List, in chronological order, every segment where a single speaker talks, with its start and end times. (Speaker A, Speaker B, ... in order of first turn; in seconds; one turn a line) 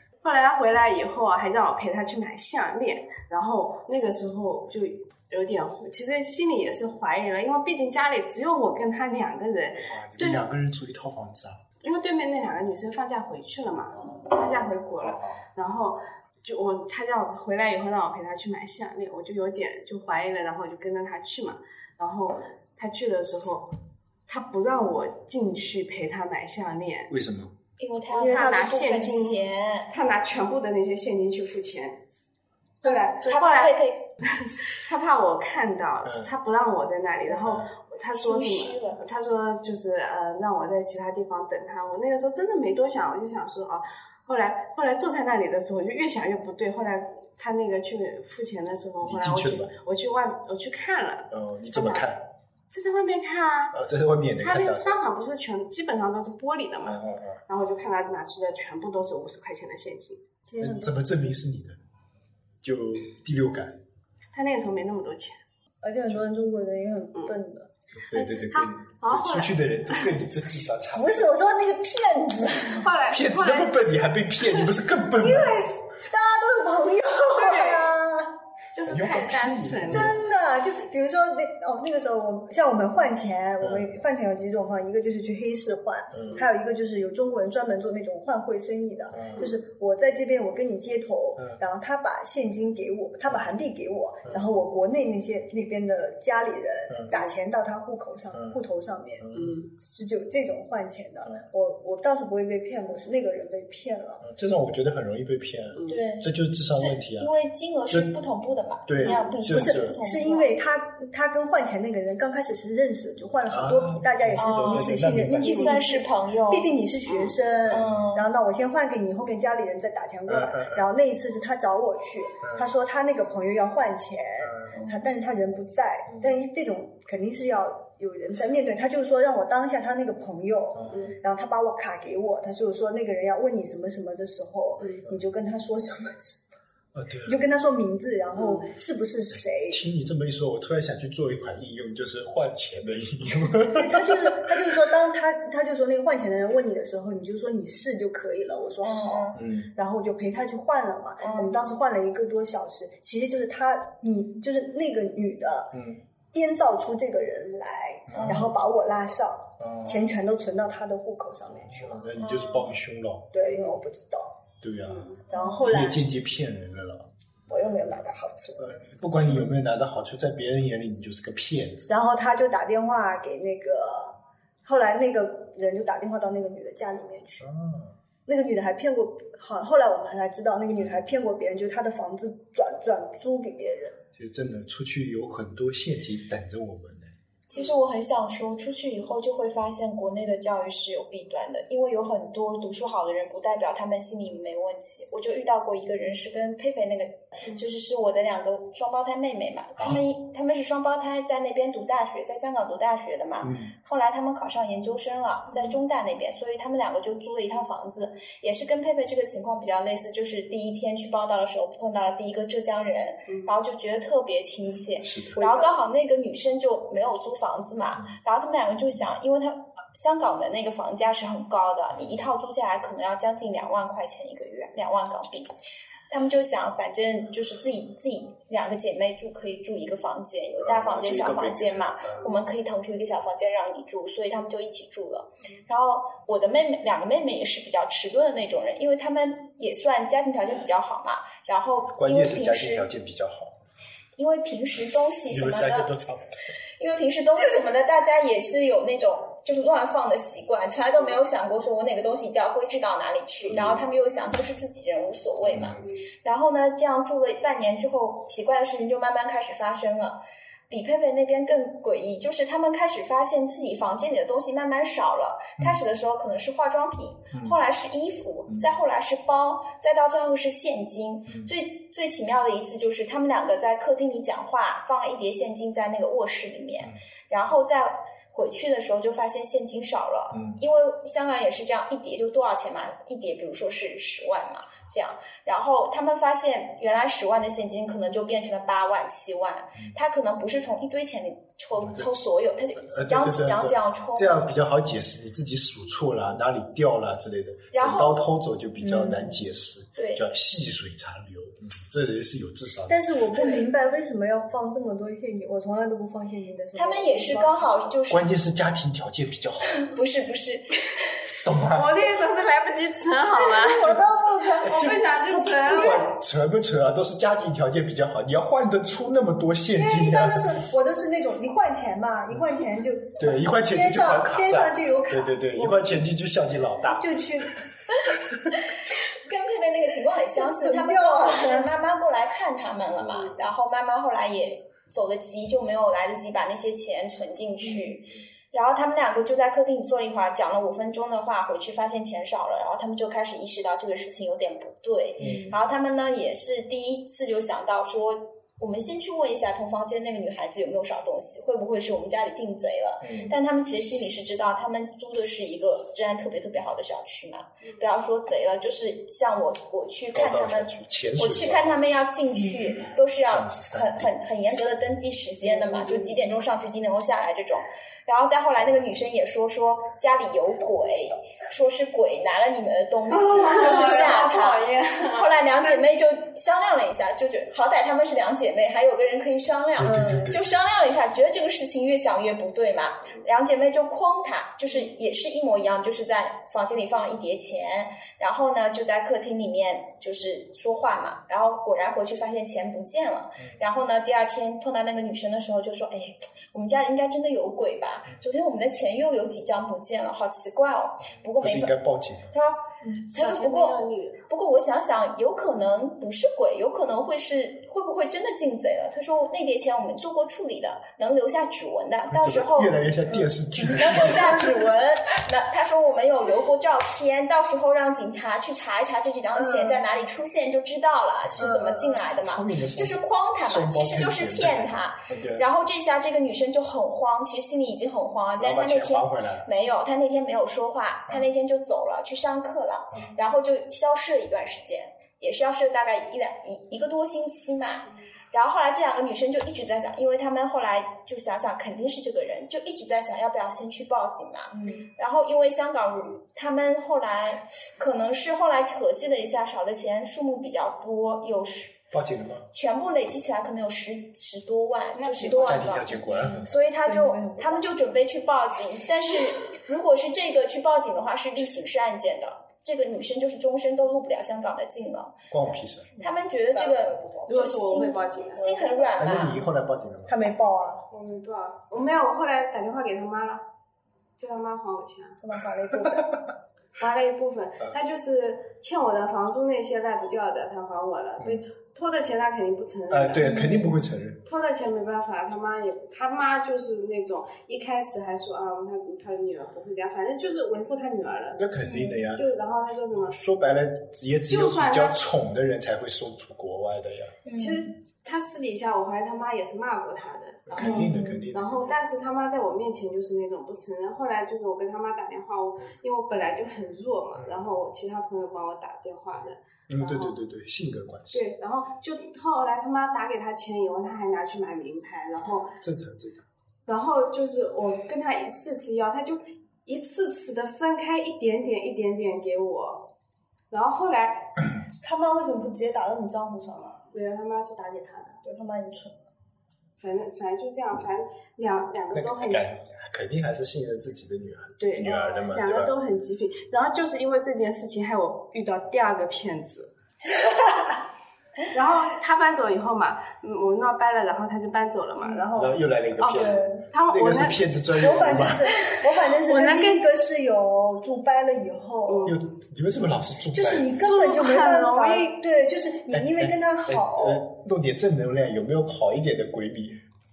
Speaker A: 0.2-10.4
Speaker B: 9.8-11.6
Speaker A: 11.8-23.7
Speaker B: 15.0-15.4
Speaker A: 24.3-27.1
Speaker B: 27.1-27.5
Speaker C: 27.8-29.9
Speaker D: 28.2-28.8
Speaker A: 28.2-32.0
Speaker A: 32.8-52.1
Speaker C: 32.8-34.1
Speaker B: 36.0-36.3
Speaker B: 37.3-37.7
Speaker C: 38.1-39.0
Speaker B: 49.0-49.7
Speaker B: 51.3-52.3
Speaker A: 52.7-53.8
Speaker B: 53.7-55.0
Speaker A: 54.4-60.2
Speaker B: 56.8-57.4
Speaker D: 60.5-61.0
Speaker B: 60.6-61.8
Speaker B: 62.6-63.8
Speaker A: 64.3-65.4
Speaker D: 65.8-67.7
Speaker B: 68.0-71.3
Speaker A: 68.1-70.2
Speaker D: 70.9-72.9
Speaker A: 72.8-73.8
Speaker B: 73.1-75.7
Speaker D: 75.2-78.4
Speaker A: 77.3-77.9
Speaker A: 78.7-80.1
Speaker B: 78.8-80.2
Speaker D: 79.9-99.2
Speaker B: 83.6-84.0
Speaker B: 86.1-86.4
Speaker B: 89.1-89.5
Speaker B: 96.9-97.1
Speaker B: 98.3-98.6
Speaker B: 99.2-99.6
Speaker A: 99.3-99.7
Speaker D: 99.8-104.2
Speaker B: 104.2-107.3
Speaker A: 105.8-106.0
Speaker C: 105.9-110.5
Speaker B: 108.8-110.0
Speaker D: 109.0-136.4
Speaker B: 113.5-115.9
Speaker C: 114.4-116.7
Speaker A: 117.0-117.4
Speaker C: 117.7-118.3
Speaker B: 120.3-120.8
Speaker B: 122.4-122.7
Speaker B: 124.4-124.7
Speaker C: 124.7-125.1
Speaker B: 130.7-131.2
Speaker B: 136.9-137.4
Speaker D: 137.2-139.8
Speaker A: 138.3-138.7
Speaker B: 139.3-144.5
Speaker D: 143.6-155.8
Speaker C: 148.8-149.4
Speaker B: 149.3-149.7
Speaker C: 151.2-151.5
Speaker B: 155.7-156.0
Speaker D: 156.3-162.0
Speaker B: 158.1-158.5
Speaker B: 159.6-160.0
Speaker B: 161.7-163.3
Speaker C: 162.2-162.7
Speaker D: 163.3-164.4
Speaker B: 164.6-167.1
Speaker A: 164.9-165.2
Speaker D: 165.3-166.0
Speaker D: 167.5-168.8
Speaker B: 168.6-171.9
Speaker D: 171.9-177.5
Speaker B: 177.4-177.9
Speaker D: 178.2-184.0
Speaker B: 184.1-187.1
Speaker C: 187.5-225.5
Speaker B: 199.8-200.0
Speaker B: 203.4-203.7
Speaker B: 215.0-215.4
Speaker D: 215.4-215.7
Speaker C: 226.1-242.9
Speaker B: 230.6-232.3
Speaker B: 241.9-243.6
Speaker C: 244.2-245.9
Speaker B: 245.3-246.3
Speaker C: 246.8-294.5
Speaker B: 253.5-253.8
Speaker B: 255.4-255.8
Speaker A: 255.8-256.0
Speaker B: 280.3-280.6
Speaker B: 291.8-292.2
Speaker B: 292.9-303.6
Speaker C: 297.7-298.2
Speaker D: 298.8-299.4
Speaker C: 299.9-300.2
Speaker D: 302.9-307.9
Speaker C: 306.7-308.3
Speaker B: 308.1-309.8
Speaker C: 309.8-311.1
Speaker B: 311.4-312.0
Speaker A: 311.7-314.0
Speaker D: 313.5-314.9
Speaker A: 314.6-316.2
Speaker B: 314.6-320.6
Speaker D: 319.8-326.0
Speaker B: 323.2-327.2
Speaker D: 326.9-327.6
Speaker C: 329.1-401.8
Speaker D: 330.4-331.7
Speaker B: 333.0-333.4
Speaker B: 345.2-345.6
Speaker B: 353.0-353.4
Speaker B: 360.1-361.8
Speaker B: 363.3-364.1
Speaker A: 365.5-366.1
Speaker A: 373.1-375.8
Speaker B: 379.8-380.5
Speaker B: 401.1-402.3
Speaker C: 402.3-412.8
Speaker A: 402.9-404.2
Speaker B: 412.1-414.6
Speaker C: 413.6-451.8
Speaker D: 419.4-419.8
Speaker B: 421.3-425.4
Speaker D: 421.4-422.0
Speaker B: 428.4-429.5
Speaker D: 444.5-444.8
Speaker B: 451.9-452.5
Speaker C: 452.5-465.2
Speaker A: 454.9-455.9
Speaker B: 455.4-456.5
Speaker D: 456.8-457.7
Speaker B: 465.3-465.9
Speaker C: 466.0-469.4
Speaker D: 466.5-467.3
Speaker A: 467.3-469.3
Speaker B: 469.0-470.1
Speaker D: 470.1-470.9
Speaker A: 470.9-473.4
Speaker A: 474.2-475.2
Speaker D: 475.2-476.2
Speaker B: 475.9-476.1
Speaker A: 476.8-483.5
Speaker B: 482.9-484.2
Speaker C: 483.2-483.8
Speaker A: 484.2-491.5
Speaker B: 491.3-492.3
Speaker C: 491.6-492.0
Speaker A: 492.1-493.1
Speaker B: 493.1-497.2
Speaker A: 494.3-495.0
Speaker C: 497.2-497.6
Speaker A: 497.3-510.2
Speaker B: 500.5-501.6
Speaker C: 500.6-501.2
Speaker B: 509.7-511.2
Speaker A: 511.1-515.5
Speaker B: 515.6-516.2
Speaker A: 516.7-522.9
Speaker A: 523.5-524.3
Speaker D: 524.8-526.8
Speaker A: 526.9-528.2
Speaker D: 528.2-529.0
Speaker A: 529.8-532.5
Speaker B: 531.9-535.8
Speaker A: 534.6-539.7
Speaker A: 541.5-547.4
Speaker B: 545.4-548.5
Speaker D: 546.1-546.6
Speaker D: 547.7-552.1
Speaker A: 548.6-549.8
Speaker A: 551.9-552.2
Speaker B: 552.0-553.7
Speaker D: 553.3-557.2
Speaker A: 553.8-555.1
Speaker B: 555.9-559.8